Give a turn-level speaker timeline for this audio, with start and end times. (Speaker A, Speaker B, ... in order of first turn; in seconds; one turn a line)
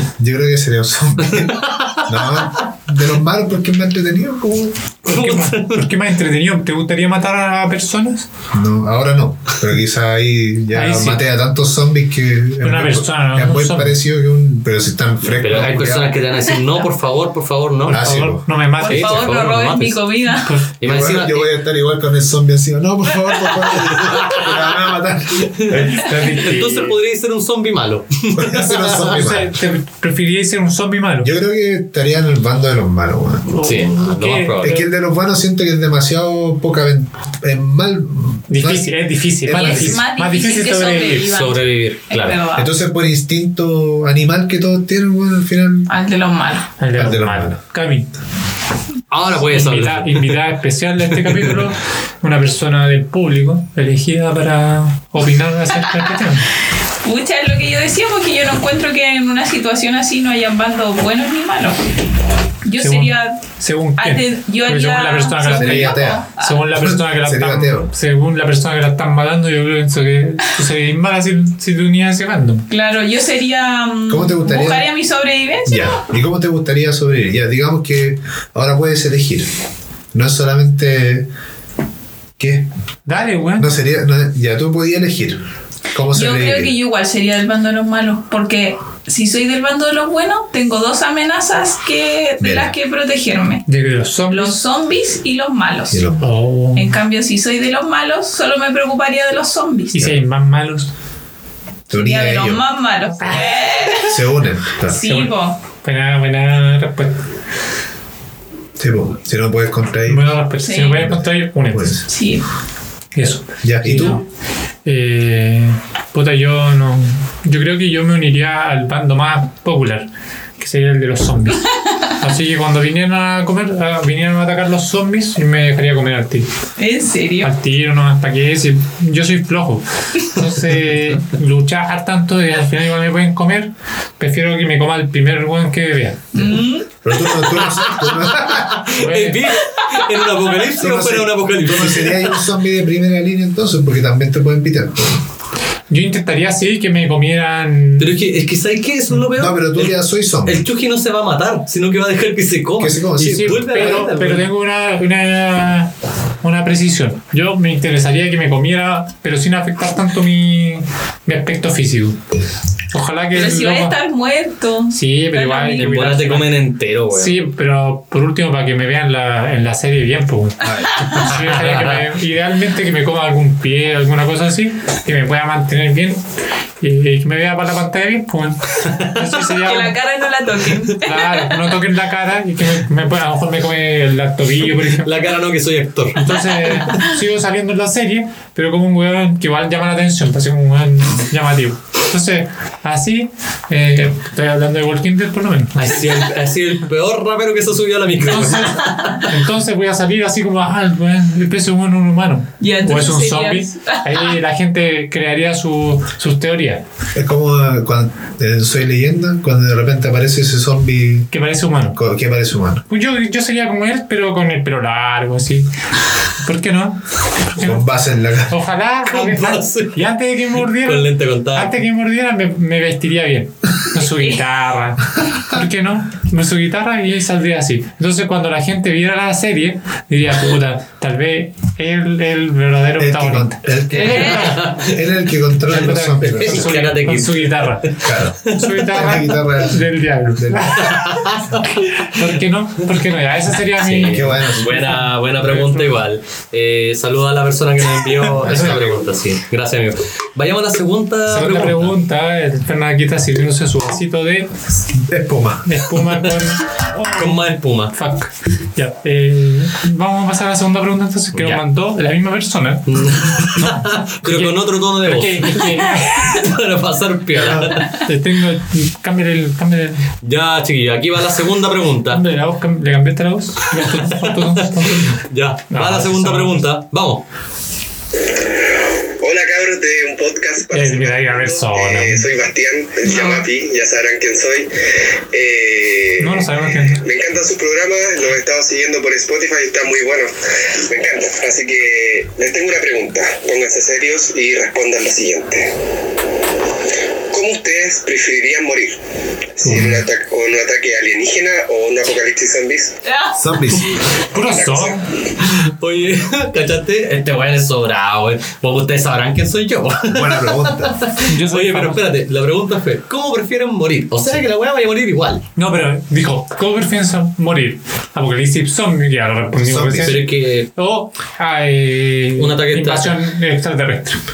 Speaker A: 0.2-4.8
Speaker B: 1.3-2.4
Speaker C: 5.0-8.3
Speaker B: 5.0-5.9
Speaker A: 8.5-16.1
Speaker C: 10.7-11.2
Speaker C: 12.6-14.0
Speaker B: 15.3-18.0
Speaker C: 17.9-19.9
Speaker A: 17.9-18.5
Speaker D: 18.8-20.6
Speaker B: 18.9-20.0
Speaker C: 20.4-20.7
Speaker B: 20.8-21.5
Speaker A: 20.8-26.0
Speaker B: 24.0-24.5
Speaker B: 25.6-29.2
Speaker C: 25.9-26.9
Speaker A: 28.3-29.6
Speaker C: 28.9-31.3
Speaker A: 31.2-33.5
Speaker C: 33.5-34.8
Speaker B: 33.6-34.8
Speaker A: 34.6-38.9
Speaker C: 38.5-41.3
Speaker A: 39.4-40.0
Speaker D: 39.5-42.7
Speaker B: 41.2-42.4
Speaker A: 42.5-45.9
Speaker D: 45.9-46.7
Speaker C: 46.8-48.1
Speaker A: 46.9-47.6
Speaker B: 49.1-50.4
Speaker C: 49.5-56.5
Speaker B: 51.2-51.6
Speaker D: 57.0-61.9
Speaker D: 62.6-63.4
Speaker C: 62.8-72.7
Speaker D: 64.0-66.7
Speaker A: 65.5-67.9
Speaker D: 72.7-76.0
Speaker A: 74.1-74.9
Speaker A: 75.7-79.5
Speaker A: 80.1-81.3
Speaker A: 82.4-82.7
Speaker C: 83.1-83.7
Speaker A: 83.6-86.7
Speaker D: 86.1-93.6
Speaker A: 92.4-92.8
Speaker C: 93.7-94.6
Speaker D: 94.3-96.1
Speaker A: 95.9-96.2
Speaker C: 96.2-97.0
Speaker D: 96.7-100.1
Speaker C: 99.9-100.9
Speaker A: 101.9-102.7
Speaker D: 101.9-104.2
Speaker A: 104.0-105.0
Speaker D: 104.9-105.6
Speaker C: 105.0-107.2
Speaker A: 108.8-110.3
Speaker C: 110.1-111.9
Speaker D: 110.6-111.0
Speaker A: 111.0-112.1
Speaker D: 112.1-112.4
Speaker C: 113.1-114.2
Speaker A: 113.6-114.2
Speaker C: 114.8-120.1
Speaker C: 120.6-121.7
Speaker C: 122.2-126.5
Speaker D: 126.8-127.5
Speaker C: 127.4-136.4
Speaker D: 136.3-136.9
Speaker A: 137.0-138.8
Speaker B: 137.6-142.4
Speaker C: 139.0-139.4
Speaker A: 140.8-145.2
Speaker C: 145.9-148.1
Speaker B: 148.0-154.5
Speaker A: 149.3-150.6
Speaker A: 152.8-154.1
Speaker C: 153.2-162.2
Speaker C: 162.9-164.0
Speaker D: 163.3-165.9
Speaker C: 164.9-166.5
Speaker B: 165.7-167.3
Speaker C: 167.1-176.2
Speaker A: 170.6-170.9
Speaker B: 171.3-172.0
Speaker C: 176.8-180.0
Speaker D: 179.6-181.7
Speaker C: 181.0-185.1
Speaker B: 184.9-186.4
Speaker C: 186.2-196.2
Speaker B: 195.8-199.3
Speaker C: 198.3-206.8
Speaker D: 202.6-204.3
Speaker A: 207.1-211.3
Speaker C: 211.3-212.0
Speaker A: 211.9-212.8
Speaker C: 212.9-215.7
Speaker C: 216.4-217.0
Speaker C: 217.5-217.8
Speaker A: 217.6-218.6
Speaker C: 218.5-234.8
Speaker B: 219.1-220.0
Speaker B: 220.6-221.8
Speaker D: 224.0-224.4
Speaker A: 233.0-236.8
Speaker D: 234.0-234.3
Speaker B: 234.3-235.0
Speaker C: 235.7-237.9
Speaker B: 235.7-238.8
Speaker A: 238.0-241.0
Speaker C: 238.4-241.1
Speaker B: 240.8-242.0
Speaker C: 242.0-245.9
Speaker B: 243.8-251.9
Speaker A: 244.1-244.8
Speaker A: 248.4-249.0
Speaker C: 251.3-254.5
Speaker A: 255.1-255.7
Speaker C: 255.6-257.3
Speaker B: 257.1-257.9
Speaker C: 257.9-266.5
Speaker B: 261.3-261.6
Speaker B: 262.9-268.0
Speaker A: 267.3-267.8
Speaker C: 268.0-270.0
Speaker B: 270.2-272.2
Speaker C: 272.1-276.6
Speaker B: 273.8-277.2
Speaker E: 279.2-284.7
Speaker C: 280.7-282.2
Speaker D: 283.1-283.4
Speaker E: 285.3-290.3
Speaker C: 286.2-287.0
Speaker E: 290.8-295.7
Speaker E: 297.3-298.9
Speaker E: 299.6-303.0
Speaker C: 299.6-300.0
Speaker D: 303.0-303.4
Speaker A: 303.3-303.9
Speaker C: 304.3-305.0
Speaker E: 304.4-305.0
Speaker B: 305.8-315.5
Speaker A: 310.1-311.0
Speaker C: 311.3-312.0
Speaker C: 315.6-324.2
Speaker A: 319.6-320.2
Speaker B: 320.0-320.7
Speaker B: 322.4-323.1